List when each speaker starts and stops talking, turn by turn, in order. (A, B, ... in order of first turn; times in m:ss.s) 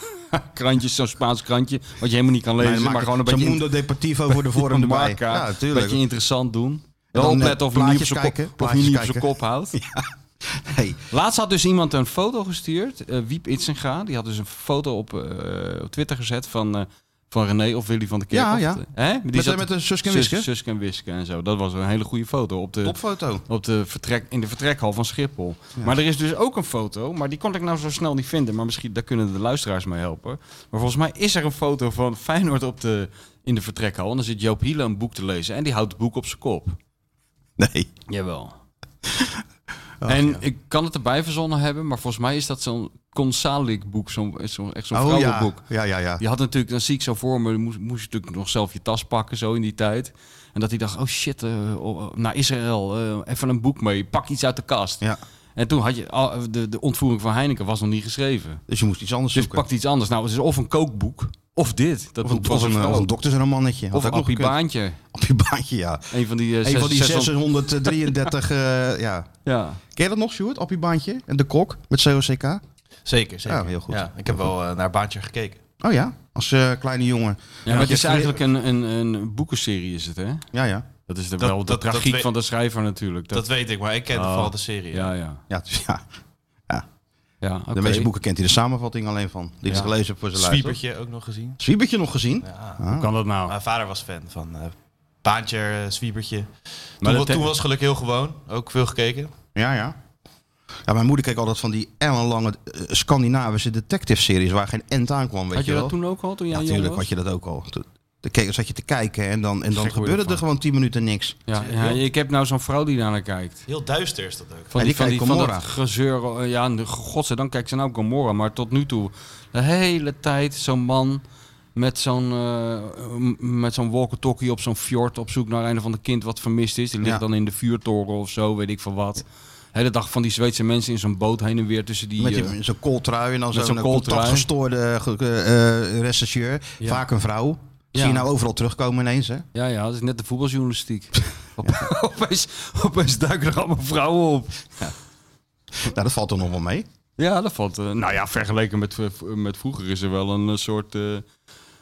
0:00.3-0:03.6 A
0:02.6-0:06.0 B
0:04.3-0:09.8 A
0:07.1-0:11.0 B
0:11.1-0:23.0 A
0:18.3-0:20.5 B
0:22.8-0:23.4 B
0:23.5-0:36.8 A
0:37.6-0:37.9 B
0:38.1-0:38.5 A
0:40.0-0:40.4 B
0:40.1-0:45.6 A
0:44.9-0:46.2 B
0:46.2-0:55.0 A
0:55.6-0:58.6 A
0:58.7-0:59.6 B
0:59.3-1:03.1 A
1:02.2-1:04.6 B
1:03.9-1:05.0 A
1:05.1-1:06.1 B
1:06.1-1:07.4 A
1:06.6-1:09.3 B
1:09.5-1:09.8 A
1:10.0-1:12.6 B
1:13.1-1:15.6 C
1:13.5-1:14.1 B
1:15.8-1:18.4 B
1:17.7-1:20.4 A
1:20.5-1:20.9 B
1:21.1-1:23.4 A
1:21.4-1:22.3 C
1:23.3-1:25.1 C
1:24.1-1:25.4 A
1:25.5-1:26.0 B
1:27.4-1:28.1 A
1:27.7-1:30.8 B
1:30.4-1:31.6 C
1:31.6-1:33.1 B
1:32.5-1:32.8 C
1:33.0-1:33.5 A
1:33.5-1:36.5 C
1:37.0-1:37.5 A
1:37.0-1:39.3 C
1:39.6-1:40.0 B
1:40.9-1:46.0 B
1:45.5-1:47.1 A
1:46.5-1:51.4 B
1:49.7-1:50.4 A
1:51.5-1:53.6 A
1:51.6-1:52.0 C
1:53.7-1:54.7 C
1:54.7-2:01.2 A
1:54.8-1:55.7 B
2:01.8-2:12.6 A
2:12.2-2:19.5 B
2:13.5-2:14.5 A
2:17.9-2:18.3 A
2:19.5-2:24.7 A
2:21.6-2:21.9 B
2:25.7-2:26.9 B
2:27.2-2:31.2 A